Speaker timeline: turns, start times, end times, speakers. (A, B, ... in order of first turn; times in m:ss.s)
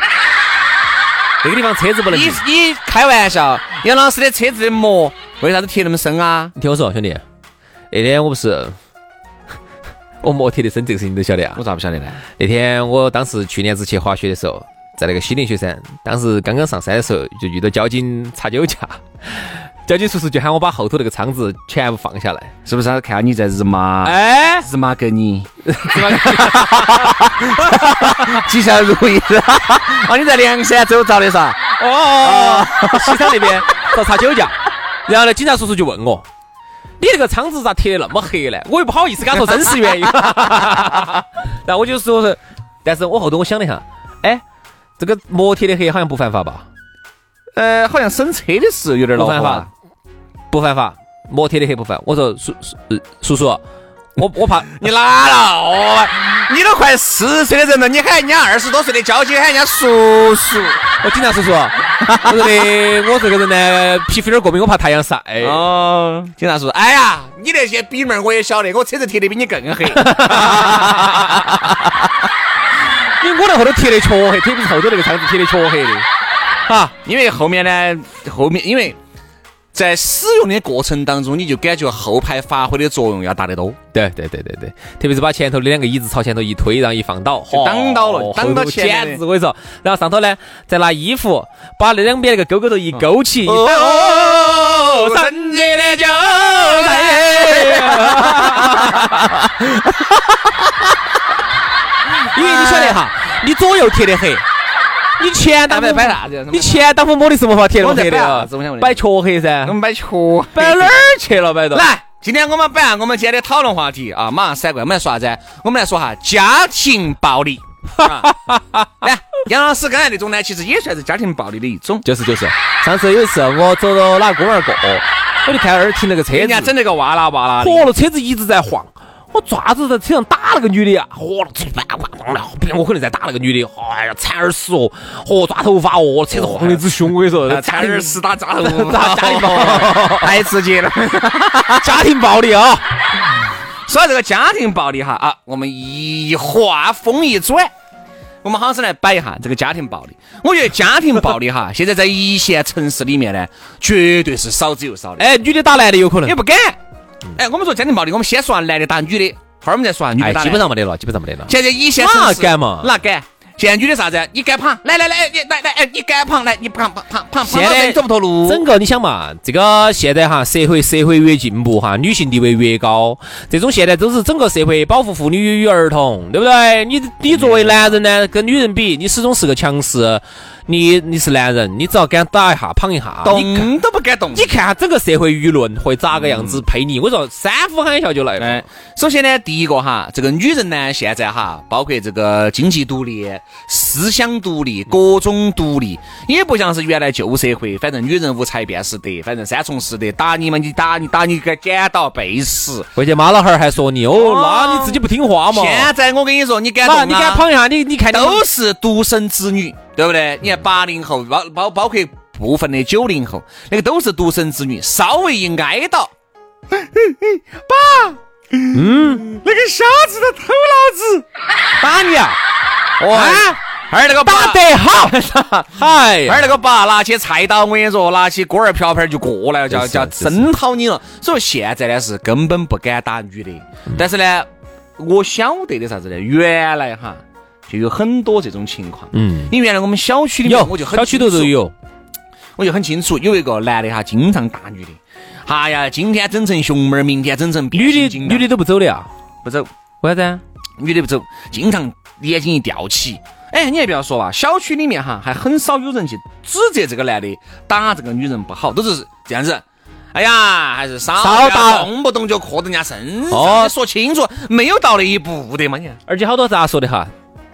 0:01.4-0:02.4 A
0:02.1-0:06.5 B
0:06.6-0:07.2 A
0:07.9-0:08.8 A
0:10.2-0:11.6 A
0:11.6-0:12.2 B
0:12.4-0:22.5 A
0:22.7-0:31.6 B
0:24.0-0:24.7 A
0:25.7-0:27.1 A
0:27.6-0:28.4 A
0:31.8-0:36.2 A
0:32.2-0:33.6 B
0:37.0-0:44.4 A
0:45.0-0:46.7 A
0:47.6-0:49.7 B
0:49.2-0:49.7 A
0:50.5-0:53.6 A
0:54.2-0:54.7 A
0:54.6-1:00.8 B
1:01.0-1:05.6 A
1:05.4-1:11.4 B
1:09.9-1:11.7 A
1:13.2-1:16.1 A
1:16.7-1:16.9 A
1:17.0-1:19.0 B
1:19.7-1:23.8 B
1:23.9-1:40.8 A
1:27.5-1:29.2 B
1:32.9-1:39.1 B
1:42.3-1:44.4 A
1:42.4-1:43.0 B
1:45.2-1:49.8 A
1:45.7-1:46.9 B
1:47.8-1:49.0 B
1:49.6-1:51.0 B
1:50.5-1:51.9 A
1:51.7-1:58.3 B
1:58.0-1:59.1 A
1:59.0-2:02.0 B
2:02.0-2:06.7 A
2:06.3-2:07.9 B
2:07.6-2:20.4 A
2:16.3-2:16.9 B
2:17.5-2:22.0 B
2:21.8-2:22.8 A
2:23.9-2:27.7 B
2:28.4-2:35.2 B
2:35.2-2:36.4 A
2:36.2-2:36.8 B
2:37.4-2:40.7 B
2:40.2-2:42.9 A
2:41.5-2:48.6 B
2:47.4-3:03.7 A
2:57.3-2:58.0 B
3:03.2-3:04.5 B
3:04.3-3:08.7 A
3:06.1-3:06.6 B
3:08.4-3:22.9 B
3:23.0-3:25.9 A
3:24.1-3:27.5 B
3:26.8-3:28.4 A
3:28.1-3:36.1 B
3:36.7-3:41.2 B
3:38.7-3:39.2 A
3:41.8-3:42.4 A
3:43.0-4:01.6 B
3:43.1-3:43.6 A
3:44.2-3:46.5 A
3:49.7-3:50.5 A
3:59.1-3:59.5 A
4:00.4-4:01.7 A
4:02.6-4:08.5 B
4:07.7-4:09.1 A
4:10.0-4:10.4 A
4:10.8-4:19.6 B
4:20.1-4:26.0 B
4:21.2-4:21.9 A
4:23.3-4:23.7 A
4:26.1-4:27.1 A